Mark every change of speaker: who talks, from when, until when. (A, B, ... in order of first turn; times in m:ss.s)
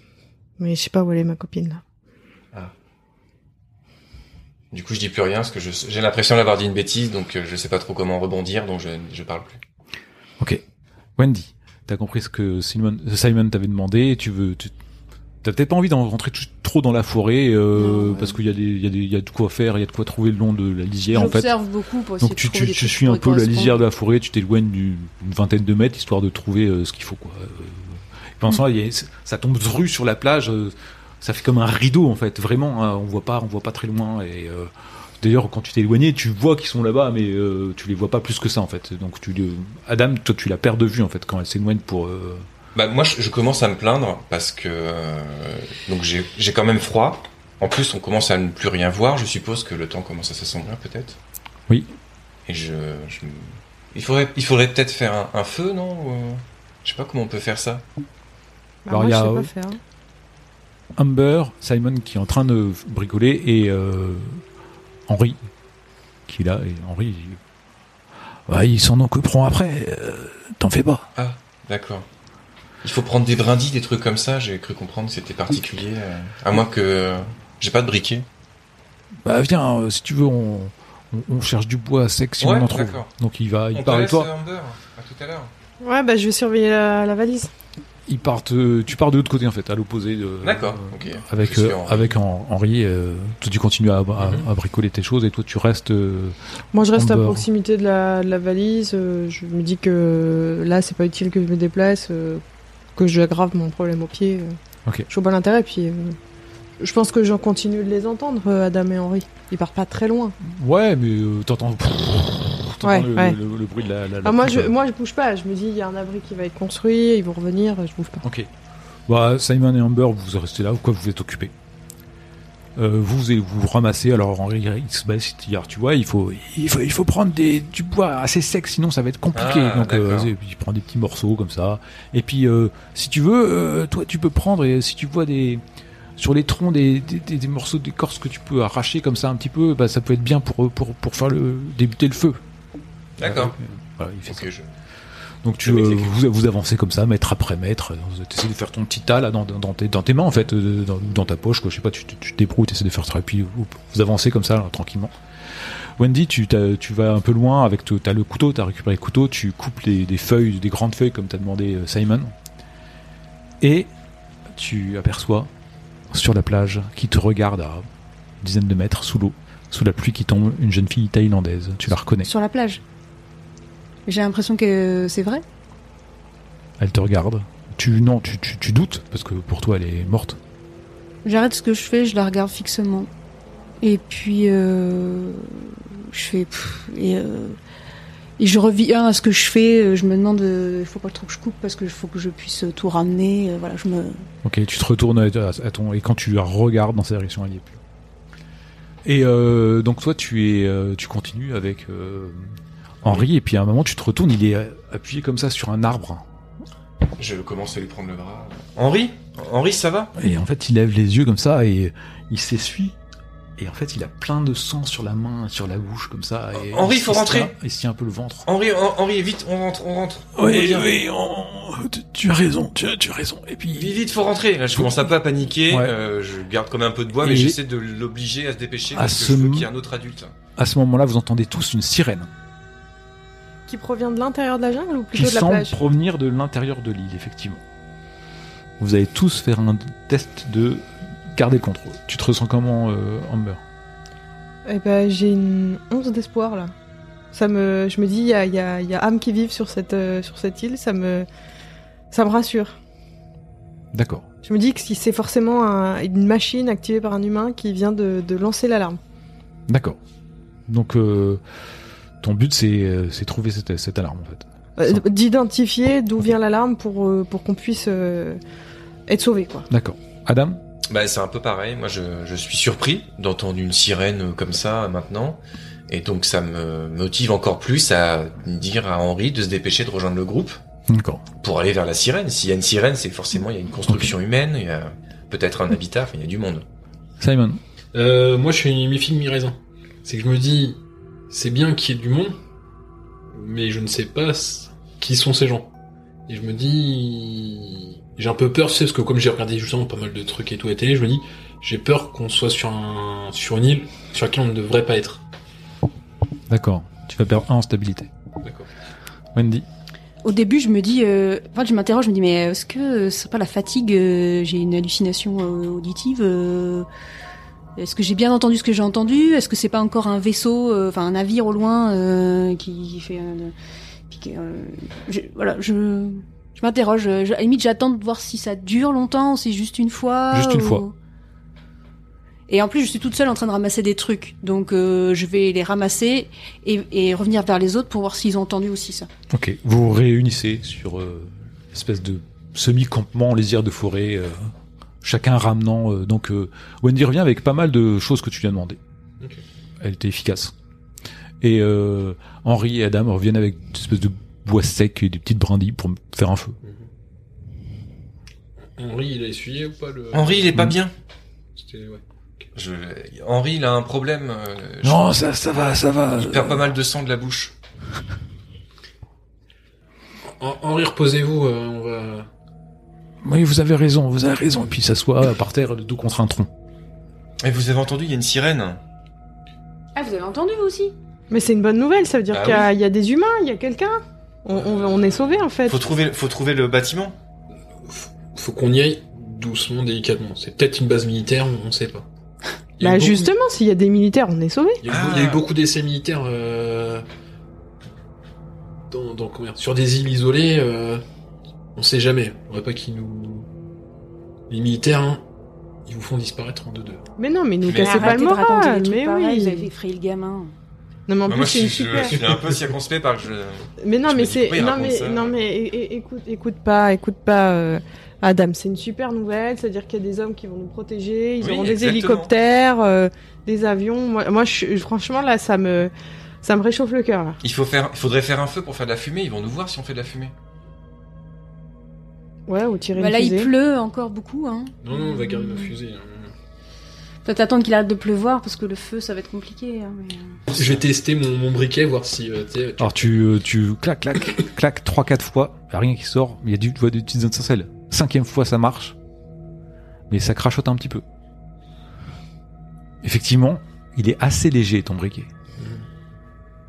0:00.6-0:01.8 A
0:04.7-0:09.6 B
0:11.2-0:14.7 C
0:15.4-0:21.5 C
0:17.8-0:18.3 D
0:21.1-0:23.8 D
0:22.2-0:42.5 C
0:42.7-0:51.2 B
0:52.4-0:57.8 B
0:58.8-0:59.8 A
0:58.9-0:59.5 C
1:01.0-1:04.4 C
1:05.1-1:05.4 C
1:06.3-1:07.4 C
1:08.5-1:11.1 C
1:11.2-1:12.0 B
1:12.8-1:18.3 B
1:19.2-1:24.3 C
1:22.4-1:23.1 B
1:23.7-1:25.5 B
1:25.8-1:27.5 A
1:28.1-1:36.4 C
1:30.4-1:32.1 B
1:34.2-1:34.4 E
1:36.7-1:42.4 A
1:36.9-1:37.4 C
1:43.0-1:44.6 A
1:45.1-1:46.2 A
1:46.8-1:50.4 A
1:50.4-1:54.7 C
1:52.8-1:53.4 A
1:54.2-1:58.2 A
1:58.2-1:58.5 C
1:59.1-2:01.5 C
2:02.8-2:15.6 C
2:09.3-2:10.3 B
2:16.2-2:22.4 C
2:23.2-2:23.6 B
2:23.2-2:24.5 C
2:24.3-2:24.7 B
2:25.4-2:35.1 C
2:25.6-2:26.1 B
2:35.6-2:42.3 C
2:43.6-2:43.9 C
2:44.5-2:45.5 C
2:46.1-2:47.8 C
2:48.4-2:52.3 C
2:52.2-2:52.8 D
2:54.1-2:55.4 D
2:56.8-3:00.4 C
3:01.2-3:03.1 D
3:03.8-3:07.6 D
3:08.4-3:14.3 D
3:14.4-3:17.8 C
3:19.0-3:26.2 C
3:27.2-3:30.1 B
3:30.2-3:33.0 C
3:33.6-3:38.4 C
3:36.6-3:37.5 B
3:38.4-3:40.9 B
3:40.4-3:44.0 C
3:43.7-3:50.3 B
3:47.2-3:47.6 C
3:48.9-3:49.7 C
3:50.6-3:52.3 C
3:53.7-3:55.8 A
3:55.1-3:57.6 C
3:58.8-4:03.6 C
4:04.6-4:06.7 A
4:07.3-4:11.3 A
4:12.1-4:12.8 A
4:13.9-4:14.2 C
4:14.4-4:19.0 A
4:19.7-4:20.0 C
4:20.7-4:21.4 C
4:22.2-4:25.0 C
4:24.8-4:28.4 A
4:29.1-4:29.7 A
4:29.7-4:30.6 C
4:30.9-4:40.6 B
4:40.9-4:41.2 C
4:41.4-4:46.6 B
4:43.9-4:44.1 C
4:47.2-4:47.6 C
4:47.9-4:52.4 E
4:53.3-4:55.7 E
4:56.3-5:05.2 E
5:06.5-5:08.1 C
5:08.4-5:08.7 E
5:09.3-5:09.7 C
5:10.2-5:16.9 D
5:17.8-5:23.5 D
5:24.1-5:30.9 D
5:30.3-5:30.8 C
5:32.5-5:39.1 D
5:39.3-5:48.8 C
5:49.8-5:50.5 C
5:51.4-5:56.6 C
5:56.6-5:56.9 E
5:58.6-6:00.6 E
6:00.1-6:00.9 B
6:01.6-6:02.5 E
6:02.5-6:05.2 B
6:04.8-6:06.7 C
6:06.1-6:07.5 B
6:10.3-6:12.3 E
6:13.2-6:16.5 C
6:17.4-6:18.8 B
6:20.0-6:20.9 D
6:21.3-6:25.8 A
6:22.3-6:22.7 B
6:24.5-6:25.5 E
6:25.6-6:27.2 B
6:27.8-6:32.1 E
6:32.8-6:33.3 E
6:32.8-6:34.8 A
6:34.8-6:37.0 E
6:34.9-6:35.4 B
6:38.9-6:41.0 E
6:41.8-6:43.5 E
6:44.5-6:45.2 E
6:45.8-6:47.0 E
6:47.2-6:49.7 A
6:47.7-6:48.1 B
6:47.7-6:50.5 D
6:51.1-6:52.3 A
6:51.2-6:55.3 B
6:53.8-7:05.9 A
7:01.4-7:02.3 B
7:06.4-7:07.4 A
7:07.4-7:10.3 B
7:12.5-7:13.5 A
7:13.0-7:15.7 D
7:14.8-7:16.3 E
7:17.2-7:20.5 D
7:20.5-7:23.2 E
7:22.8-7:29.0 C
7:30.1-7:31.0 C
7:33.0-7:35.3 C
7:35.6-7:35.8 E